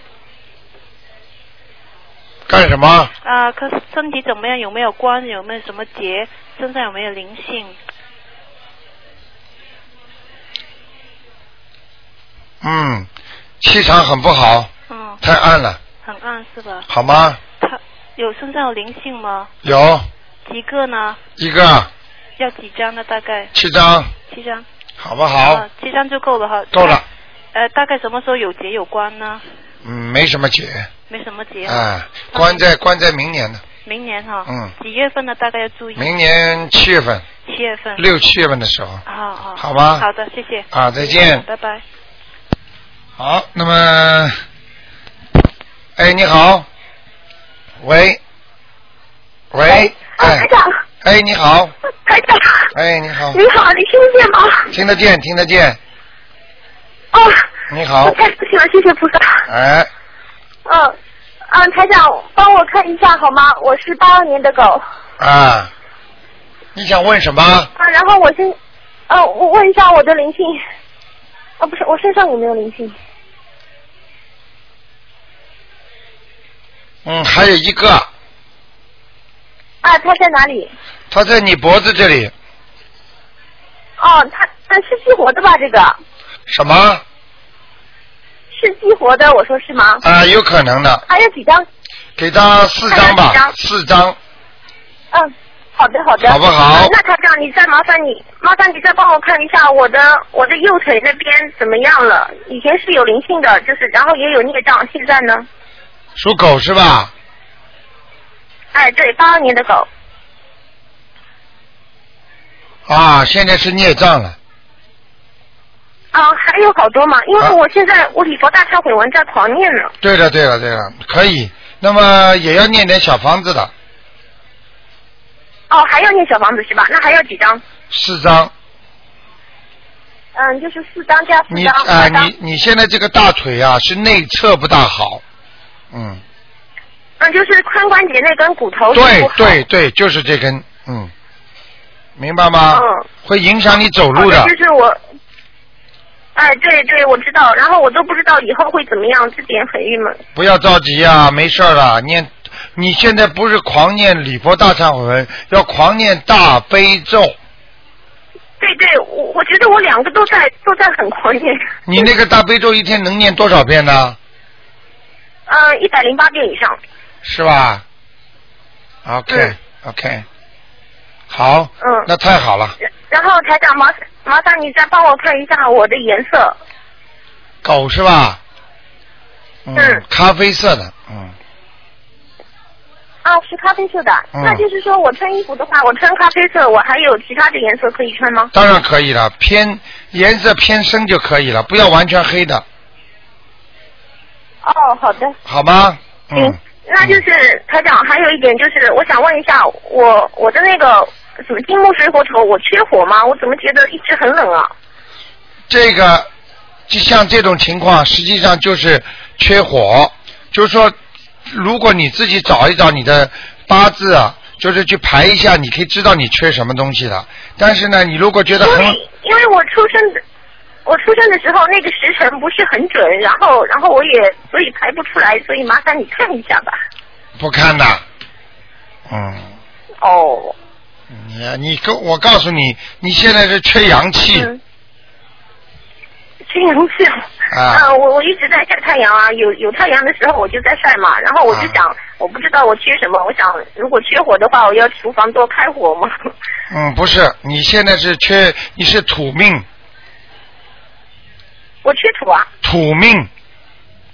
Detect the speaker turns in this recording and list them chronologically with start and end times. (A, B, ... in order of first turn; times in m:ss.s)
0:02.5-0:03.1 A
0:03.2-0:07.7 B
0:12.6-0:13.1 A
0:13.6-0:15.8 A
0:14.9-0:15.2 B
0:16.0-0:16.8 B
0:16.9-0:17.4 A
0:17.6-0:19.5 B
0:19.6-0:20.1 A
0:20.5-0:21.2 B
0:21.4-0:21.9 A
0:22.4-0:23.5 B
0:23.5-0:24.1 A
0:24.3-0:24.6 B
0:25.0-0:25.7 A
0:25.4-0:27.0 B
0:26.7-0:27.0 A
0:27.5-0:29.4 B
0:29.8-0:30.9 A
0:31.1-0:32.7 B
0:31.7-0:33.6 A
0:33.8-0:36.1 B
0:34.5-0:34.7 A
0:36.0-0:37.2 A
0:37.5-0:38.0 B
0:38.0-0:39.0 A
0:39.1-0:41.8 B
0:39.6-0:40.1 A
0:40.7-0:41.4 A
0:43.2-0:44.4 A
0:46.0-0:46.7 A
0:47.8-0:48.2 A
0:49.5-0:50.5 A
0:49.7-0:50.8 C
0:51.0-0:51.7 A
0:52.1-0:52.7 C
0:52.7-0:53.4 A
0:53.3-0:54.7 C
0:54.7-0:55.8 A
0:57.1-0:57.5 C
0:57.7-0:58.2 A
0:58.0-0:59.5 C
0:59.5-0:59.9 A
1:00.7-1:01.0 C
1:01.5-1:04.8 C
1:05.2-1:05.7 A
1:06.8-1:07.7 A
1:07.8-1:08.6 C
1:09.1-1:10.6 C
1:11.6-1:13.0 C
1:17.0-1:18.1 A
1:19.8-1:20.7 C
1:21.1-1:22.3 A
1:24.0-1:26.0 C
1:26.5-1:27.0 A
1:28.5-1:30.0 C
1:30.0-1:31.0 A
1:31.1-1:31.7 C
1:32.2-1:34.2 A
1:32.9-1:33.5 C
1:35.1-1:45.5 C
1:36.2-1:36.9 A
1:46.2-1:47.1 A
1:48.7-1:49.9 C
1:52.9-1:54.4 A
1:56.1-1:59.9 C
2:00.0-2:03.7 A
2:05.7-2:07.6 C
2:07.9-2:08.5 A
2:10.4-2:12.3 C
2:11.5-2:15.2 A
2:15.9-2:16.2 A
2:17.2-2:19.6 C
2:18.9-2:21.1 A
2:22.2-2:24.5 A
2:22.7-2:23.1 C
2:24.1-2:25.0 C
2:26.4-2:30.2 C
2:30.4-2:37.4 A
2:38.6-2:42.0 C
2:41.9-2:44.2 A
2:45.5-2:46.8 C
2:47.2-2:47.8 A
2:49.0-2:50.2 A
2:49.3-2:49.6 C
2:51.3-2:52.8 A
2:51.8-2:52.1 C
2:53.1-2:56.6 C
2:57.6-2:58.4 A
2:59.7-3:01.4 A
2:59.8-3:00.0 C
3:03.2-3:08.5 C
3:04.3-3:04.6 A
3:08.5-3:12.6 A
3:14.6-3:15.4 C
3:15.4-3:17.2 A
3:16.3-3:24.7 C
3:25.7-3:26.3 A
3:26.9-3:31.0 A
3:31.5-3:39.0 A
3:38.5-3:40.2 C
3:40.9-3:46.8 C
3:47.4-3:48.0 A
3:49.1-3:49.6 A
3:50.0-3:50.5 C
3:51.1-3:54.5 A
3:54.3-3:54.6 C
3:56.5-4:06.1 C
3:57.5-3:57.9 A
4:01.5-4:01.8 A
4:06.7-4:09.6 A
4:11.8-4:12.5 C
4:12.6-4:13.3 A